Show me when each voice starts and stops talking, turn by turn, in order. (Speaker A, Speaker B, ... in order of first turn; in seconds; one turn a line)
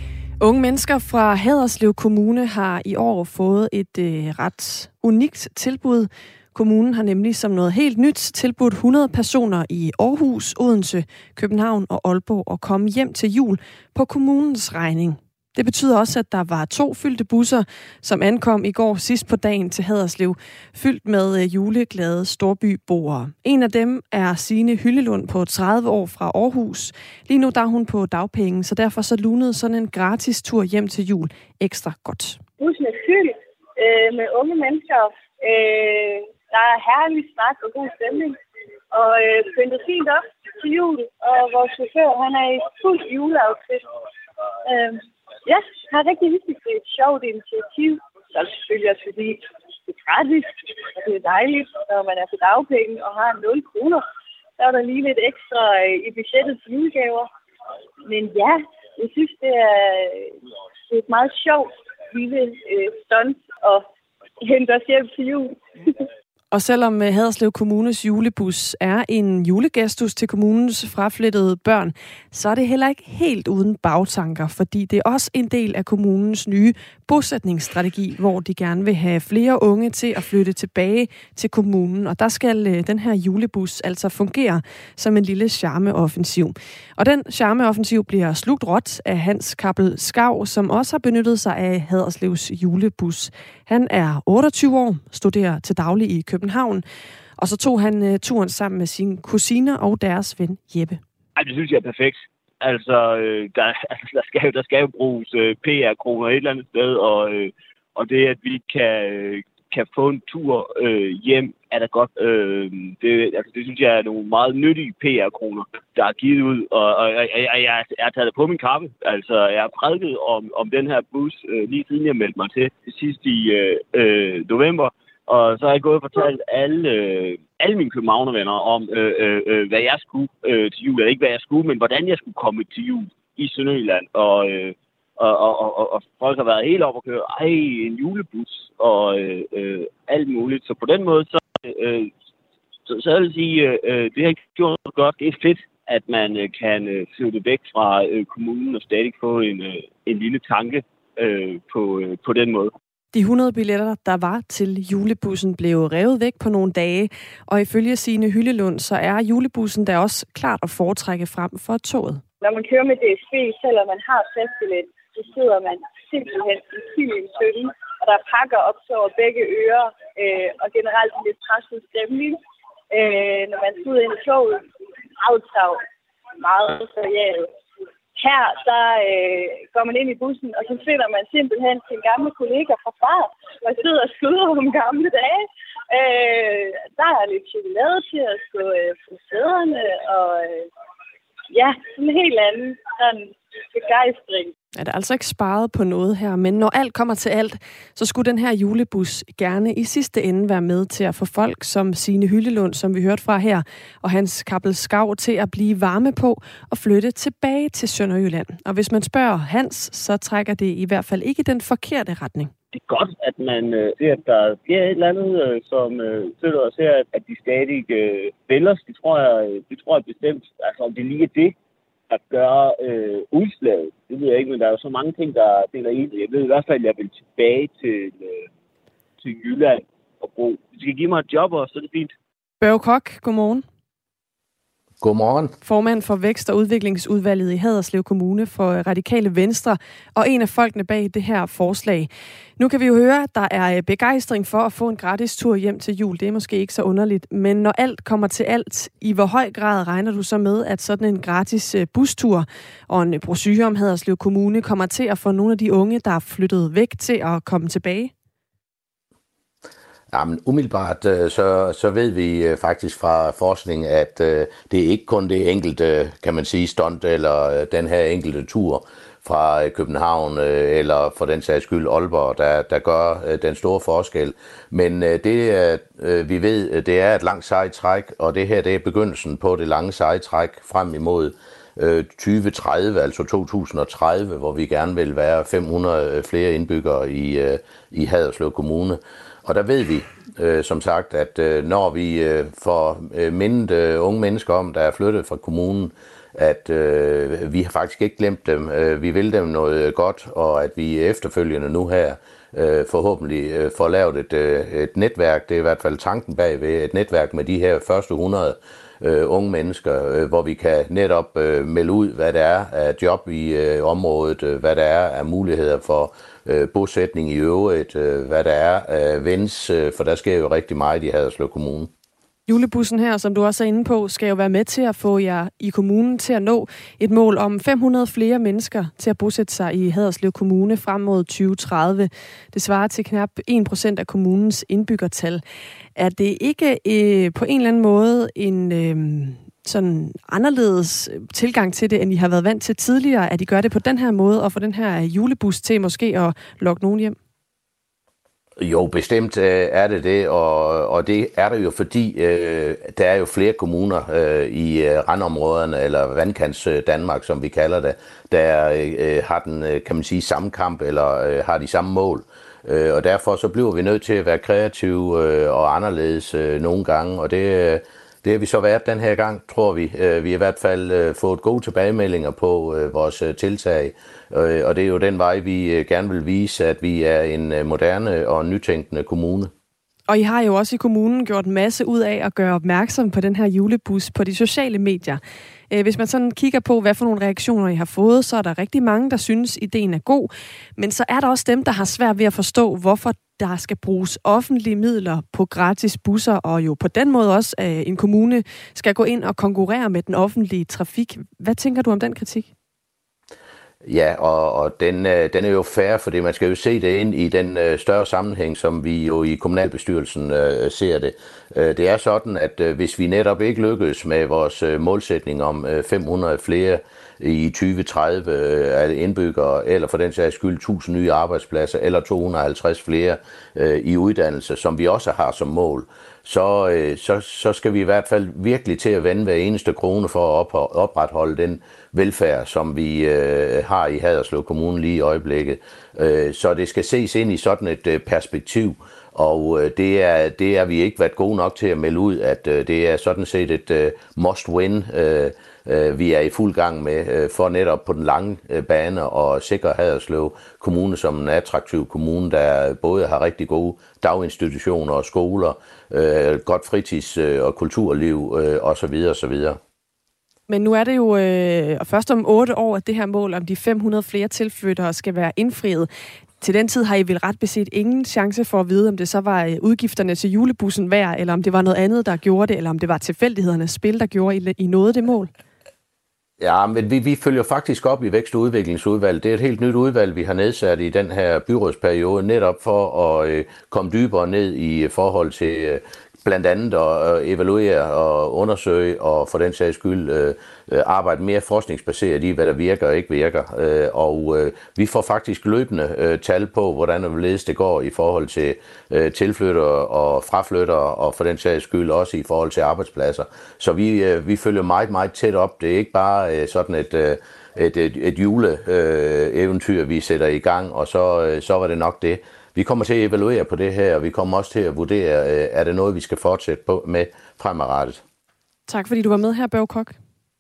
Speaker A: 0.4-32.4
Speaker B: 32.6-38.4
Speaker B: 38.9-43.8
Speaker B: 44.7-54.0
Speaker B: 54.6-57.3
Speaker B: 58.1-60.3
Speaker B: 60.9-63.9
Speaker B: 64.4-66.0
Speaker A: 66.5-96.8
Speaker A: 97.4-101.0
Speaker C: 101.4-142.1
Speaker C: 142.9-152.7
Speaker A: 153.1-162.2
Speaker B: 162.4-172.4
Speaker B: 172.9-174.7
Speaker B: 175.2-175.8
Speaker B: 176.4-177.5
Speaker B: 178.2-190.7
Speaker B: 191.5-194.5
Speaker A: 194.8-212.5
Speaker C: 212.7-221.6
Speaker C: 222.1-228.5
Speaker C: 229.2-232.1
Speaker A: 232.6-233.7
Speaker D: 235.0-235.5
Speaker A: 235.6-258.1
Speaker D: 260.1-321.9
Speaker A: 322.5-335.4
Speaker A: 336.0-347.2
Speaker D: 348.6-379.5
Speaker A: 380.1-402.5
Speaker D: 403.9-459.6
Speaker A: 460.5-465.9
Speaker A: 466.4-475.3
Speaker D: 476.4-518.0
Speaker A: 518.7-520.0